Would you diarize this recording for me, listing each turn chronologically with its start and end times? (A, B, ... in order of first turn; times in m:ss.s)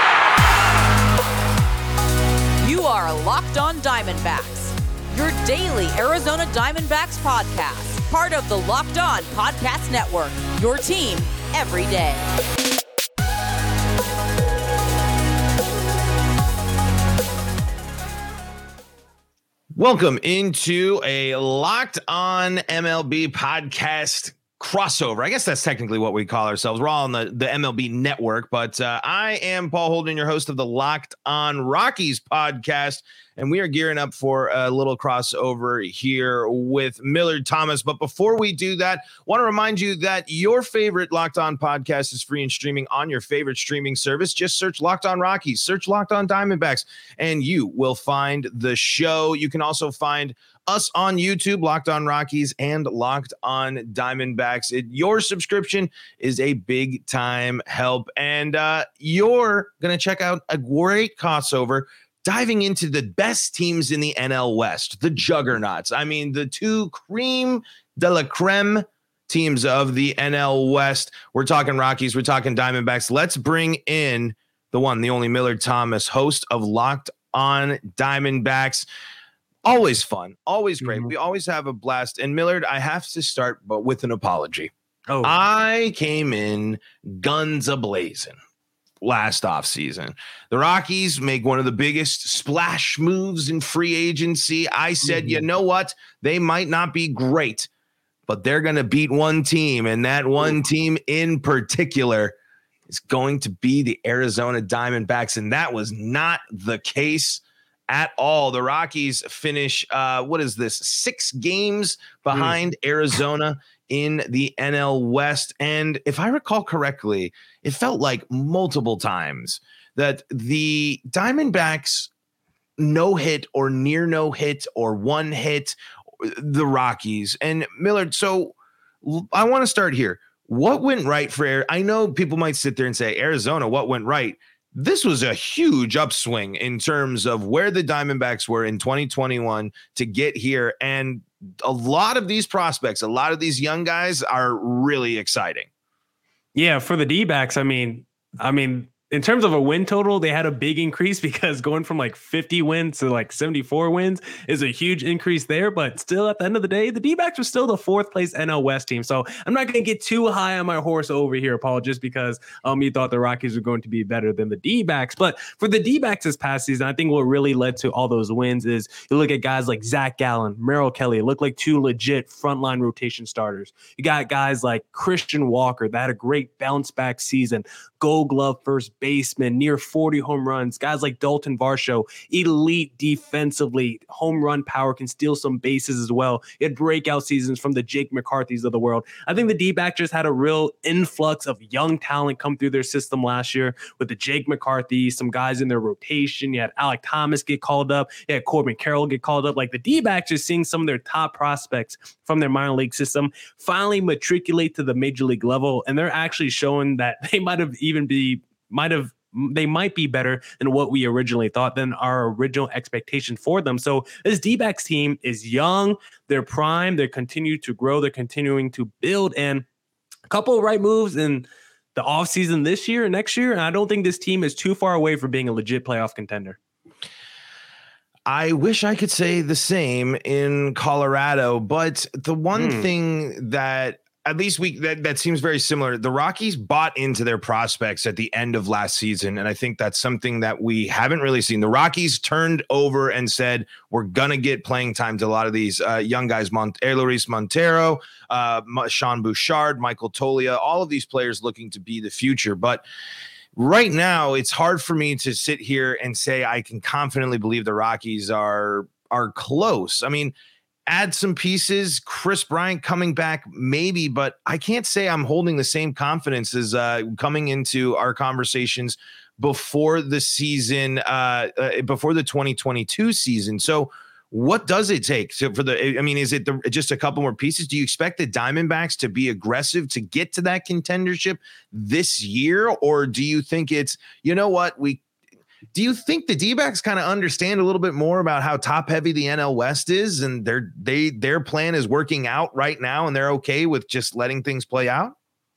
0:02.6-0:12.3 A
0:19.7-1:18.8 B
1:19.6-1:24.7 B
1:20.8-1:21.1 C
1:25.1-1:25.4 C
1:25.2-1:28.4 B
1:29.0-1:37.7 B
1:35.0-1:35.4 C
1:38.3-1:42.4 B
1:42.9-2:02.1 B
1:52.3-1:52.6 C
2:02.8-2:25.7 B
2:26.5-3:39.6 C
3:40.3-3:46.6 C
3:48.3-4:12.8 B
3:52.5-3:52.9 C
4:13.6-4:20.3 B
4:20.9-4:45.0 B
4:45.7-4:55.1 B